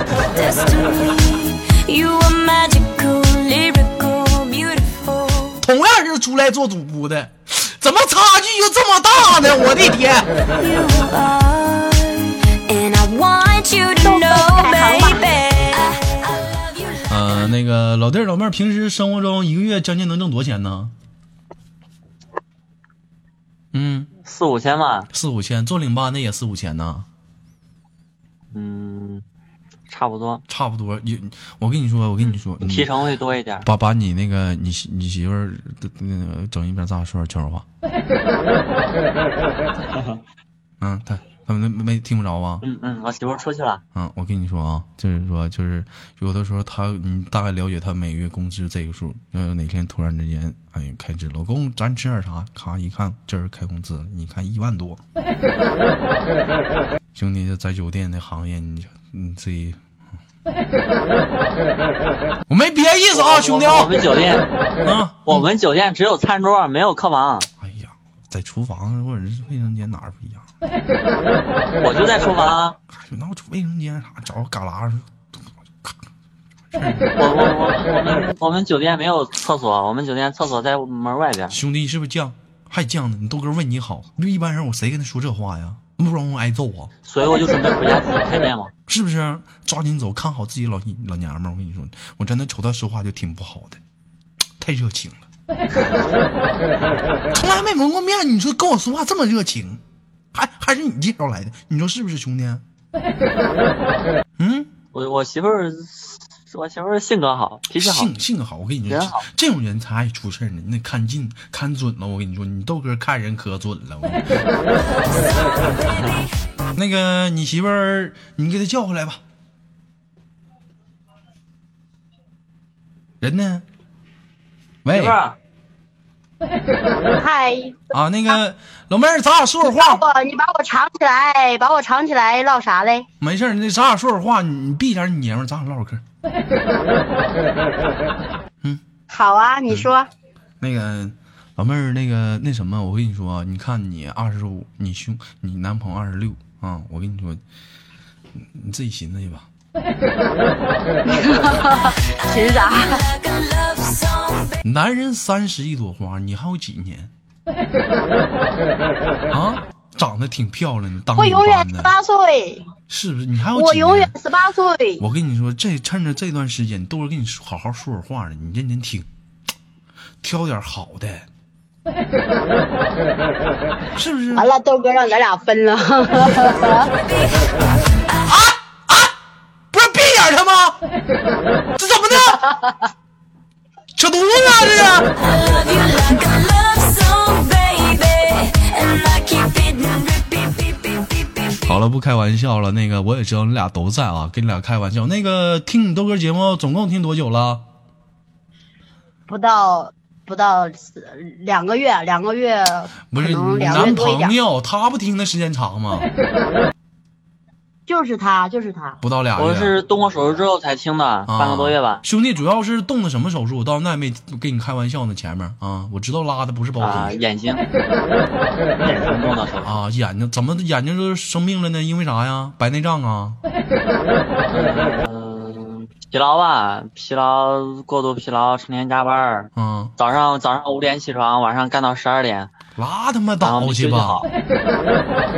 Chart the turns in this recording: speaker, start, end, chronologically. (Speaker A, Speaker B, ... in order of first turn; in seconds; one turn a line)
Speaker A: 0.3-5.6
Speaker B: 5.6-10.3
Speaker A: 10.6-17.0
Speaker C: 14.0-15.4
Speaker B: 17.1-20.9
Speaker B: 23.7-24.1
Speaker D: 24.2-25.1
Speaker B: 25.1-27.1
Speaker D: 28.5-29.2
Speaker D: 29.9-30.4
Speaker B: 30.5-32.9
Speaker D: 32.2-33.7
Speaker B: 33.6-37.6
Speaker B: 40.8-42.6
Speaker D: 42.6-43.8
Speaker B: 44.0-55.0
Speaker B: 57.2-59.8
Speaker B: 62.5-64.0
Speaker D: 63.1-64.5
Speaker B: 64.8-65.5
Speaker D: 65.2-67.5
Speaker B: 67.6-70.5
Speaker D: 71.8-72.8
Speaker B: 73.0-75.1
Speaker B: 76.7-77.1
Speaker D: 77.2-81.6
Speaker B: 81.5-86.9
Speaker D: 87.0-88.7
Speaker B: 88.9-93.8
Speaker B: 94.6-95.2
Speaker B: 97.3-99.8
Speaker B: 100.3-102.6
Speaker B: 104.4-104.7
Speaker D: 104.9-108.1
Speaker B: 107.8-114.3
Speaker D: 108.9-109.2
Speaker B: 116.8-119.2
Speaker B: 123.2-123.6
Speaker B: 124.8-125.2
Speaker D: 124.9-125.4
Speaker C: 127.2-127.8
Speaker B: 127.9-130.0
Speaker C: 129.6-133.1
Speaker B: 133.2-136.0
Speaker C: 139.1-140.1
Speaker B: 140.6-147.4
Speaker B: 148.4-149.5
Speaker C: 151.1-153.1
Speaker A: 153.5-154.2
Speaker B: 154.6-157.1
Speaker B: 159.3-161.9
Speaker C: 161.2-162.6
Speaker B: 162.9-164.1
Speaker C: 163.6-165.0
Speaker B: 165.0-169.1
Speaker B: 170.2-171.3
Speaker B: 173.9-174.5
Speaker C: 174.3-176.9
Speaker B: 178.2-179.1
Speaker B: 179.7-180.8
Speaker B: 181.8-182.5
Speaker B: 183.9-185.1
Speaker A: 185.2-191.6
Speaker B: 191.6-197.6
Speaker C: 199.3-204.3
Speaker B: 203.1-206.1
Speaker C: 207.9-209.0
Speaker B: 209.0-209.7
Speaker D: 209.4-212.0
Speaker B: 211.3-217.2
Speaker D: 216.8-217.6
Speaker D: 218.8-219.8
Speaker B: 219.6-223.4
Speaker D: 224.5-232.5
Speaker B: 229.6-229.9
Speaker B: 232.8-234.2
Speaker D: 233.4-234.3